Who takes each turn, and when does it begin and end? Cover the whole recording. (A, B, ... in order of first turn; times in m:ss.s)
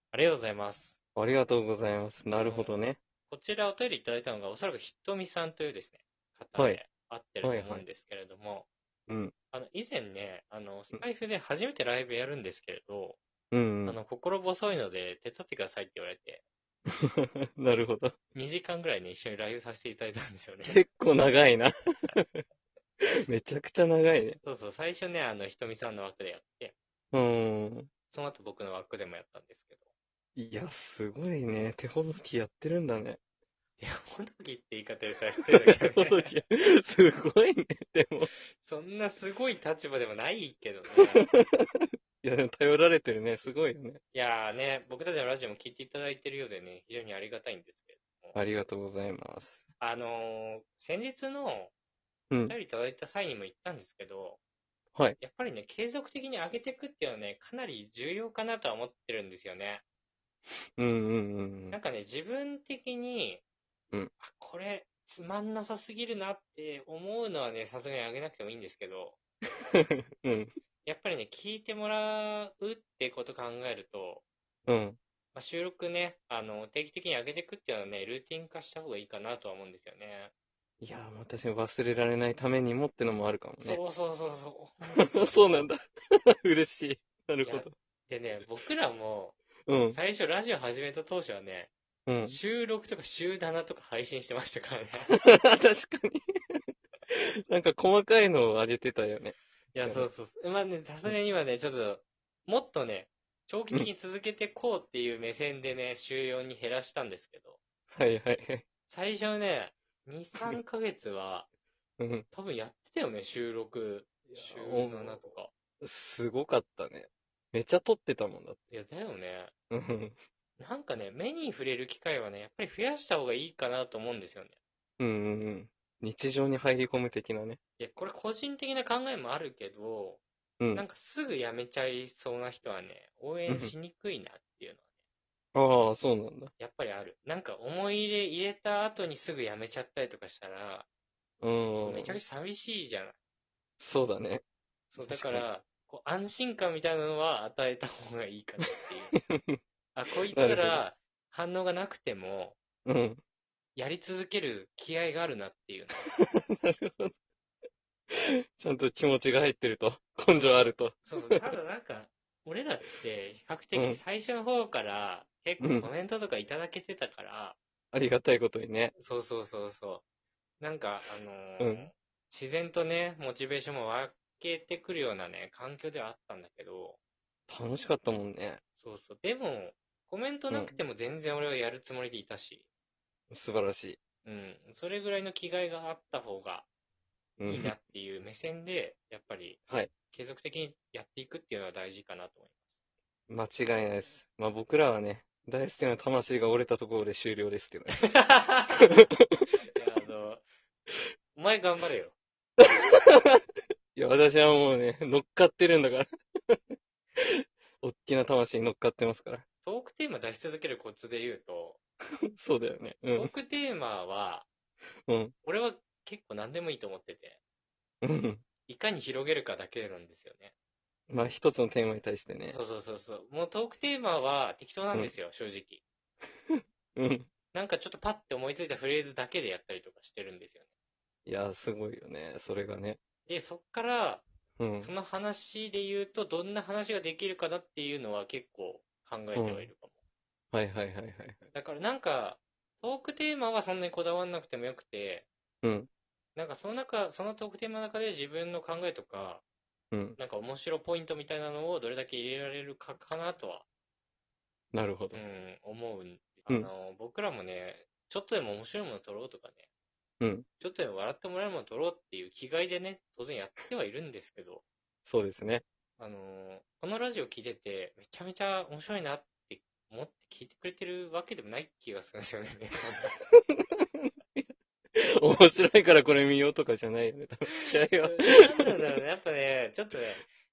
0:00.1-0:01.0 A
0:01.2-0:03.0 B
0:02.4-0:02.7 A
0:03.3-0:08.7 A
0:06.6-0:06.8 B
0:07.4-0:07.8 B
0:09.5-0:13.2 A
0:13.5-0:14.0 B
0:13.8-0:16.4 A
0:16.9-0:18.2 B
0:18.3-0:20.8 A
0:20.6-0:22.4 B
0:23.3-0:24.4 B
0:24.4-0:26.7 A
0:27.1-0:27.9 B
0:28.1-0:29.8 A
0:30.4-0:33.2 B
0:33.8-0:36.3 A
0:35.5-0:38.3 B
0:38.6-0:41.3 A
0:41.0-0:44.0 B
0:44.1-0:48.4 A
0:48.3-0:49.6 B
0:49.8-0:51.7 A
0:52.3-0:52.6 B
0:52.5-0:54.4 A
0:55.2-0:59.8 A
1:00.8-1:01.8 B
1:01.7-1:03.4 A
1:04.2-1:09.2 A
1:09.7-1:10.5 B
1:10.8-1:14.2 A
1:14.7-1:15.0 B
1:15.3-1:20.3 A
1:20.8-1:23.8 B
1:23.6-1:25.7 A
1:25.0-1:25.8 B
1:26.4-1:27.7 B
1:27.4-1:31.7 A
1:29.7-1:30.0 B
1:32.1-1:32.4 B
1:32.2-1:35.1 A
1:35.1-1:40.1 B
1:39.7-1:47.6 A
1:47.9-1:48.6 B
1:48.9-1:51.5 A
1:52.0-1:52.3 B
1:52.3-1:55.5 A
1:54.3-1:55.3 B
1:55.8-1:58.6 B
1:58.7-1:59.5 A
1:59.7-2:00.2 B
2:00.6-2:04.5 A
2:05.0-2:07.6 B
2:07.8-2:10.2 A
2:10.6-2:10.8 B
2:10.7-2:14.8 A
2:13.5-2:13.7 B
2:15.5-2:16.5 B
2:16.6-2:20.9 A
2:21.4-2:22.2 B
2:21.8-2:23.2 A
2:23.8-2:24.4 B
2:24.9-2:29.2 A
2:25.0-2:25.4 B
2:29.1-2:29.6 B
2:29.9-2:32.6 A
2:30.3-2:30.8 B
2:32.8-2:33.2 B
2:33.8-2:36.0 A
2:36.2-2:37.1 B
2:38.1-2:41.4 B
2:41.0-2:47.6 A
2:43.7-2:44.0 B
2:45.6-2:45.9 B
2:47.9-2:48.9 B
2:49.0-2:50.0 A
2:50.6-2:57.0 A
2:51.6-2:51.9 B
2:57.5-2:58.6 B
2:58.8-3:02.6 A
3:00.5-3:00.8 B
3:03.3-3:04.0 B
3:04.2-3:06.7 A
3:07.4-3:07.8 B
3:07.5-3:09.6 A
3:10.1-3:12.6 A
3:13.3-3:18.1 B
3:18.1-3:19.1 A
3:18.8-3:19.5 B
3:19.7-3:20.4 A
3:21.3-3:22.2 A
3:22.6-3:23.4 B
3:23.9-3:26.6 B
3:27.2-3:29.4 B
3:29.6-3:31.8 A
3:32.3-3:33.3 B
3:33.2-3:34.5 A
3:35.1-3:35.3 B
3:35.4-3:37.4 A
3:38.0-3:38.4 B
3:38.7-3:40.5 A
3:41.1-3:42.6 B
3:42.5-3:45.8 A
3:46.5-3:47.3 B
3:47.5-3:50.7 A
3:51.2-3:53.0 B
3:53.3-3:54.2 A
3:54.6-3:54.9 B
3:54.8-4:00.0 A
3:59.3-3:59.7 B
4:00.5-4:01.4 B
4:01.5-4:05.3 A
4:05.6-4:05.9 B
4:06.3-4:09.4 A
4:09.9-4:10.2 B
4:10.2-4:13.6 A
4:14.7-4:15.2 B
4:15.1-4:19.6 A
4:20.2-4:20.5 B
4:20.6-4:24.6 A
4:25.1-4:25.6 B
4:26.0-4:33.2 A
4:33.3-4:38.7 B
4:38.0-4:40.2 A